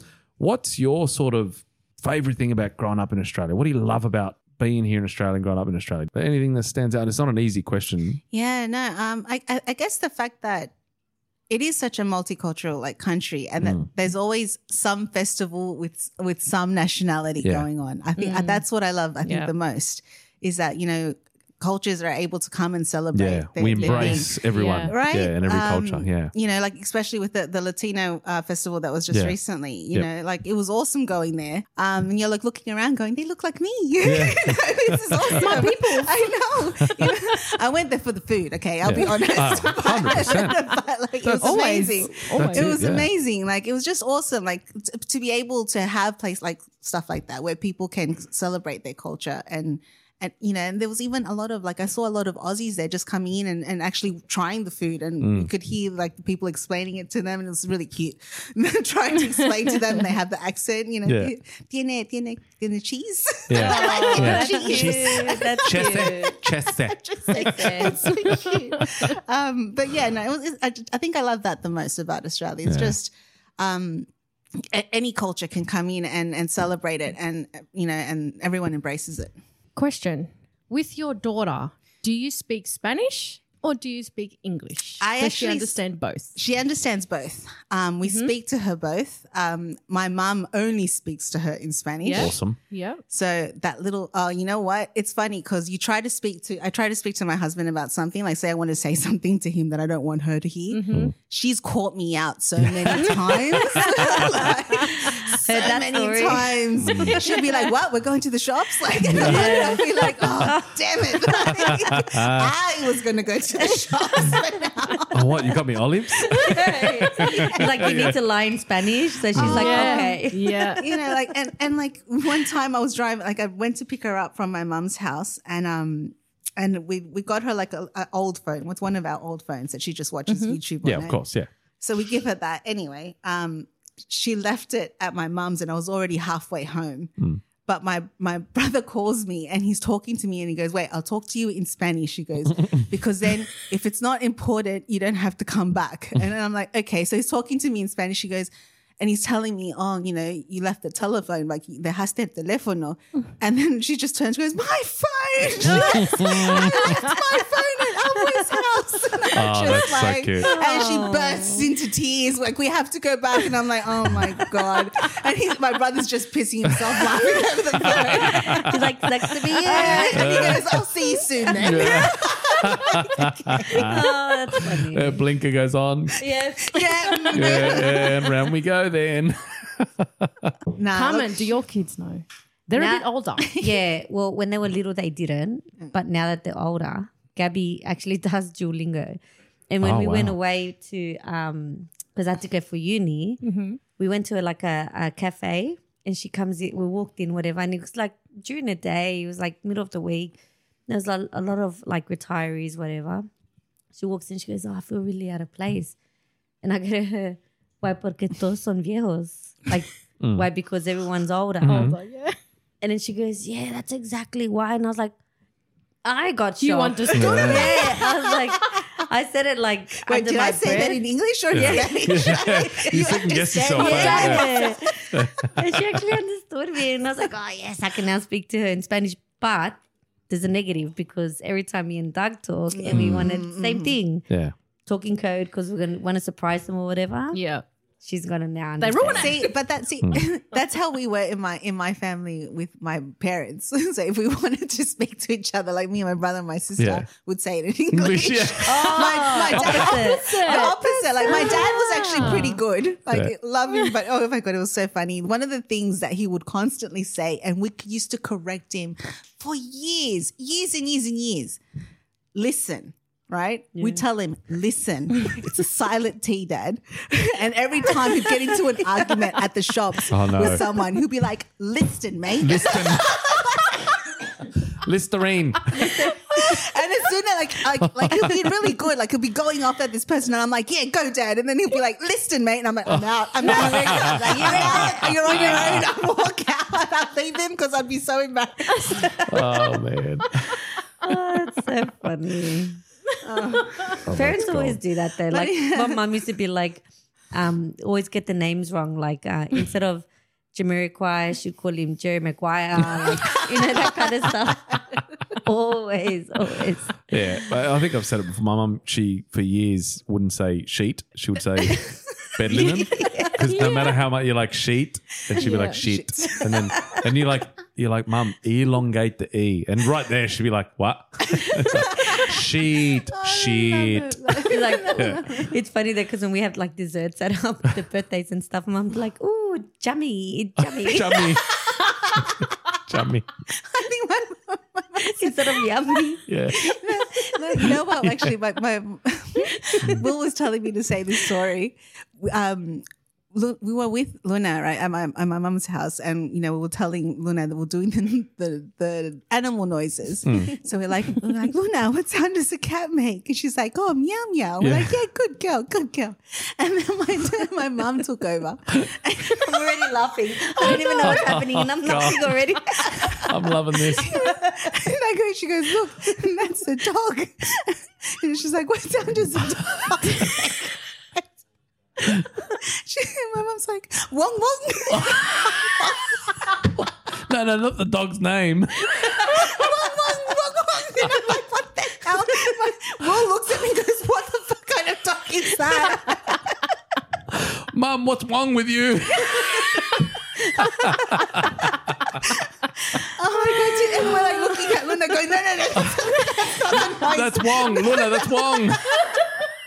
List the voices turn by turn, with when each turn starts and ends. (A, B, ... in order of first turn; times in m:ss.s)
0:00.4-0:08.2 A
0:08.3-0:10.7 B
0:11.5-1:14.1 B
0:18.2-0:18.6 C
0:19.2-0:19.5 C
0:23.1-0:26.3 A
0:23.8-0:24.9 C
0:34.0-0:35.6 A
0:35.3-0:36.3 C
0:36.8-0:37.2 A
0:38.8-0:40.6 A
0:40.1-0:40.5 C
0:41.2-0:43.1 A
0:41.4-0:42.7 C
0:55.2-0:55.5 A
0:59.6-0:59.9 C
1:01.0-1:01.3 A
1:03.5-1:09.1 A
1:03.5-1:06.4 D
1:07.4-1:08.9 C
1:12.6-1:13.0 A
1:14.6-1:19.3 B
1:19.8-1:26.4 C
1:25.0-1:25.8 B
1:26.3-1:32.4 B
1:28.0-1:28.3 C
1:32.0-1:33.0 C
1:32.1-1:32.6 A
1:33.1-1:55.4 B
1:40.7-1:41.1 C
1:42.6-1:44.2 A
1:43.8-1:46.6 D
1:46.8-1:47.3 A
1:49.1-1:49.7 A
1:49.2-1:50.8 D
1:49.4-1:49.8 C
1:51.2-1:52.5 A
1:51.5-1:51.8 D
1:53.6-1:54.4 D
1:55.1-1:58.2 A
1:56.3-2:01.0 D
1:56.4-1:57.8 B
1:59.3-1:59.7 A
1:59.3-2:00.2 B
1:59.4-2:00.8 C
2:00.8-2:11.2 B
2:10.3-2:10.6 C
2:10.8-2:11.5 A
2:11.8-2:17.1 B
2:17.6-2:48.7 B
2:35.6-2:37.0 A
2:39.3-2:40.5 A
2:40.4-2:41.8 D
2:47.8-2:48.8 A
2:48.1-2:50.6 D
2:49.4-2:53.9 B
2:49.9-2:50.8 A
2:51.5-2:56.2 A
2:51.8-2:52.1 D
2:53.7-2:55.2 D
2:56.2-2:58.0 D
2:56.7-2:58.3 B
2:57.3-3:00.5 A
3:00.7-3:01.5 B
3:00.9-3:03.6 C
3:02.7-3:09.2 D
3:09.7-3:13.4 D
3:09.8-3:10.3 A
3:13.4-3:13.8 C
3:14.0-3:23.3 D
3:23.9-3:25.9 D
3:26.6-3:31.9 D
3:31.6-3:32.0 A
3:31.7-3:32.4 C
3:32.8-3:35.1 D
3:36.0-3:41.0 D
3:36.6-3:38.0 C
3:37.1-3:37.8 A
3:40.0-3:45.1 B
3:41.5-3:44.5 A
3:41.6-3:42.0 D
3:43.8-3:54.3 D
3:43.9-3:44.4 C
3:45.1-3:45.6 A
3:52.7-3:54.0 B
3:52.9-3:53.3 A
3:54.3-3:54.5 A
3:54.8-3:57.4 D
3:57.3-3:57.6 C
3:58.0-3:59.4 D
3:58.8-3:59.5 C
3:59.0-4:21.6 B
4:06.8-4:07.0 A
4:07.9-4:09.9 A
4:08.6-4:11.6 D
4:10.0-4:12.6 C
4:22.3-4:34.2 B
4:23.8-4:24.0 D
4:30.1-4:30.6 A
4:32.4-4:33.3 A
4:34.7-4:36.0 A
4:35.7-4:36.5 D
4:35.7-4:49.7 B
4:37.8-4:38.4 A
4:42.9-4:45.9 A
4:43.5-4:45.0 D
4:48.7-4:49.1 C
4:49.3-4:50.4 A
4:51.0-4:52.8 D
4:53.2-4:54.0 B
4:54.0-4:54.8 A
4:54.0-5:07.2 D
4:55.3-4:56.0 B
5:07.1-5:24.4 A
5:12.5-5:13.2 B
5:12.9-5:13.7 D
5:13.4-5:14.0 C
5:15.4-5:17.0 B
5:15.4-5:15.8 C
5:21.7-5:22.3 B
5:23.1-5:25.5 B
5:24.4-5:31.4 D
5:24.9-5:25.2 A
5:30.6-5:33.3 A
5:31.6-5:32.2 B
5:33.6-5:36.0 B
5:35.0-5:36.6 D
5:36.3-5:36.8 A
5:36.5-5:59.9 B
5:37.6-5:38.3 A
5:50.2-5:50.5 A
5:54.6-5:55.0 A
5:59.4-6:03.3 D
6:00.4-6:01.4 B
6:00.6-6:02.4 A
6:02.7-6:03.3 B
6:03.2-6:04.2 A
6:04.0-6:11.2 B
6:04.0-6:04.7 D
6:12.4-6:16.4 B
6:14.9-6:15.7 A
6:16.8-6:19.5 A
6:19.0-6:26.6 B
6:27.3-6:31.7 A
6:30.6-6:30.9 B
6:32.9-6:38.8 B
6:36.9-6:38.9 A